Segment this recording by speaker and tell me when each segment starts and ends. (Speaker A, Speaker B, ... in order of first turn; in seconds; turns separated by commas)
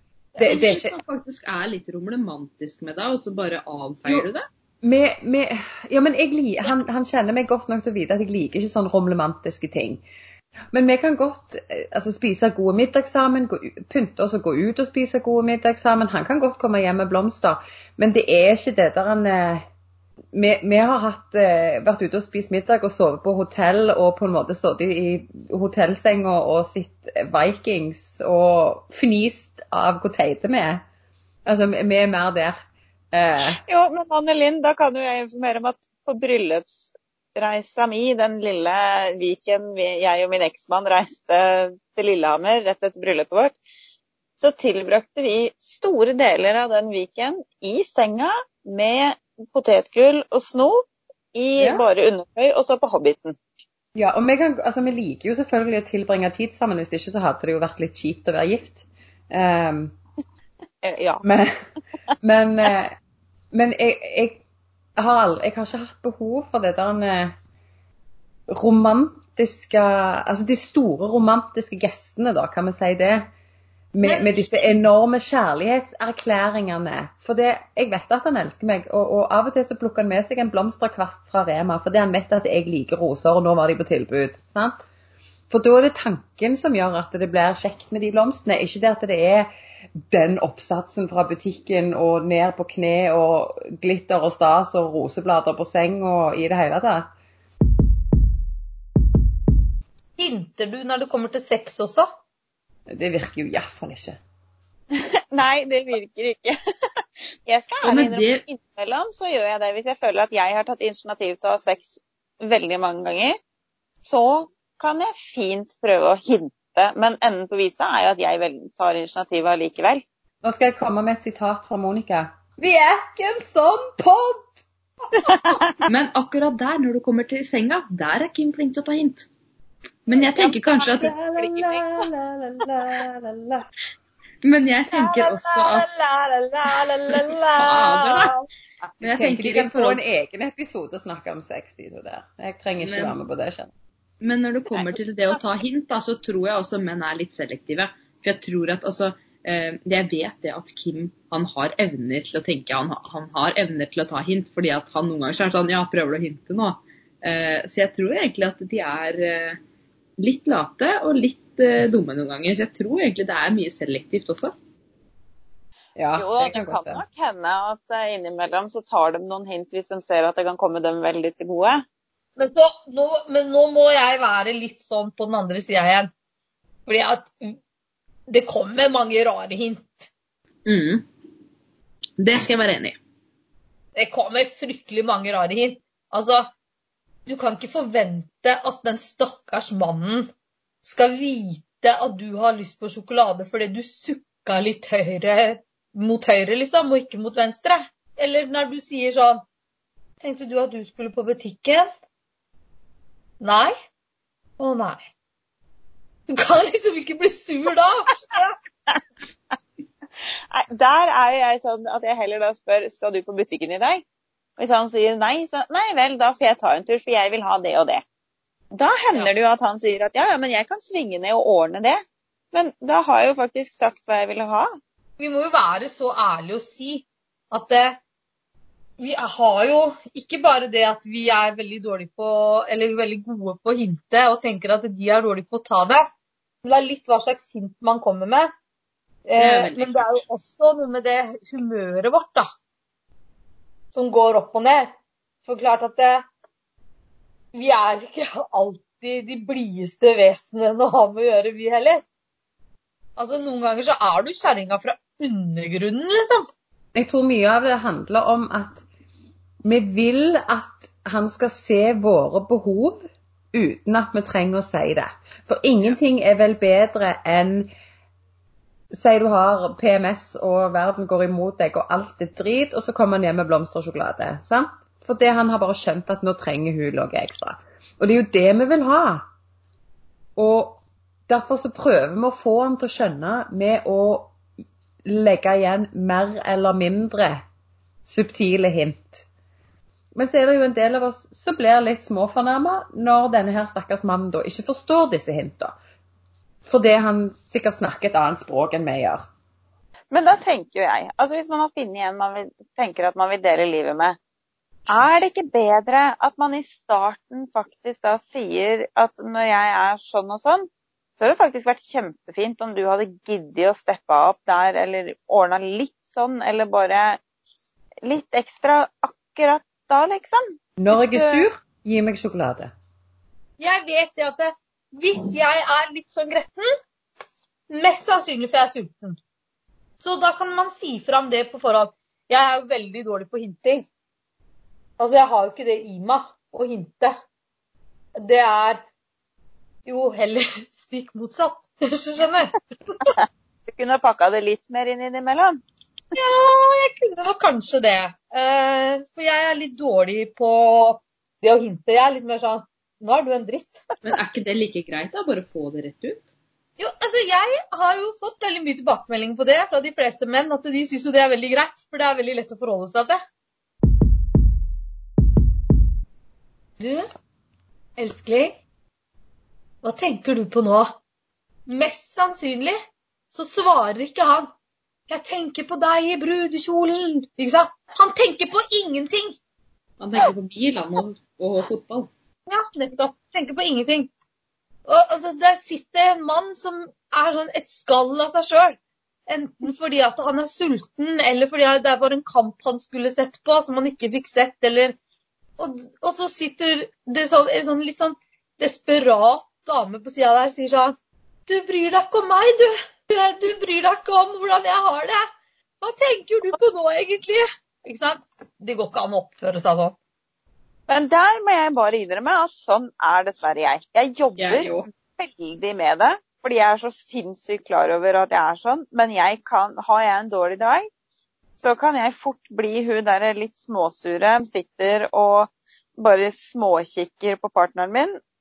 Speaker A: 0.4-0.9, Speaker B: 0.4-4.4, Speaker A: 4.8-10.0, Speaker A: 10.7-19.6, Speaker A: 20.3-30.8, Speaker A: 31.4-32.5, Speaker A: 33.1-33.6, Speaker C: 33.6-43.6, Speaker C: 44.4-50.8, Speaker C: 51.3-53.4, Speaker A: 51.6-51.8, Speaker A: 53.9-59.9, Speaker C: 60.8-61.2, Speaker A: 61.2-61.5, Speaker A: 62.2-62.9, Speaker A: 63.5-64.4, Speaker A: 65.0-67.3, Speaker A: 68.5-73.3, Speaker A: 73.9-84.8, Speaker D: 74.0-74.8, Speaker A: 85.5-89.5, Speaker A: 90.1-97.1, Speaker D: 100.2-102.1, Speaker A: 102.9-104.2, Speaker C: 104.9-113.3, Speaker B: 107.8-108.4, Speaker C: 114.0-120.0, Speaker A: 120.4-124.5, Speaker C: 125.3-125.8, Speaker B: 125.8-129.3, Speaker B: 130.1-131.2, Speaker C: 130.1-132.1, Speaker A: 130.9-133.7, Speaker B: 134.4-135.9, Speaker D: 135.7-138.4, Speaker B: 137.1-138.3, Speaker B: 139.0-140.0, Speaker A: 139.1-143.7, Speaker B: 142.8-143.2, Speaker B: 144.2-159.6, Speaker B: 160.2-164.5, Speaker A: 165.9-167.0, Speaker C: 166.2-171.8, Speaker D: 172.4-176.1, Speaker D: 176.9-177.6, Speaker D: 178.3-180.1, Speaker B: 180.7-181.1, Speaker B: 182.2-182.9, Speaker D: 183.9-186.5, Speaker D: 187.2-190.3, Speaker D: 190.8-199.4, Speaker D: 200.2-201.9, Speaker D: 203.4-203.7, Speaker D: 204.6-205.1, Speaker D: 206.3-208.6, Speaker C: 210.5-214.0, Speaker C: 214.6-218.0, Speaker C: 218.7-222.0, Speaker C: 222.5-224.7, Speaker D: 225.2-228.0, Speaker D: 229.0-236.1, Speaker D: 236.6-238.5, Speaker D: 239.3-242.5, Speaker B: 239.4-240.2, Speaker D: 243.9-244.9, Speaker D: 245.4-246.2, Speaker D: 247.5-252.0, Speaker D: 253.2-256.5, Speaker A: 256.9-258.8, Speaker A: 259.6-267.7, Speaker A: 268.9-279.2, Speaker A: 280.4-284.4, Speaker A: 285.0-287.4, Speaker A: 288.0-289.2, Speaker A: 290.1-295.7, Speaker A: 296.6-299.2, Speaker C: 300.1-304.2, Speaker C: 304.9-317.2, Speaker C: 318.0-321.4, Speaker A: 320.8-322.7, Speaker D: 323.6-326.7, Speaker D: 327.7-329.2, Speaker D: 330.0-333.8, Speaker D: 335.0-337.1, Speaker D: 338.2-338.8, Speaker D: 339.9-343.1, Speaker C: 343.7-345.6, Speaker D: 346.1-353.8, Speaker B: 354.0-356.3, Speaker D: 356.8-363.2, Speaker D: 366.8-367.1, Speaker D: 368.0-368.6, Speaker D: 369.8-371.0, Speaker D: 371.7-372.8, Speaker D: 373.3-374.5, Speaker D: 375.1-379.3, Speaker B: 380.0-382.1, Speaker D: 382.5-384.1, Speaker D: 384.9-394.9, Speaker D: 395.6-400.9, Speaker D: 401.5-405.3, Speaker D: 405.8-409.9, Speaker C: 410.9-414.7, Speaker B: 414.4-414.9, Speaker C: 415.2-420.9, Speaker C: 421.6-428.2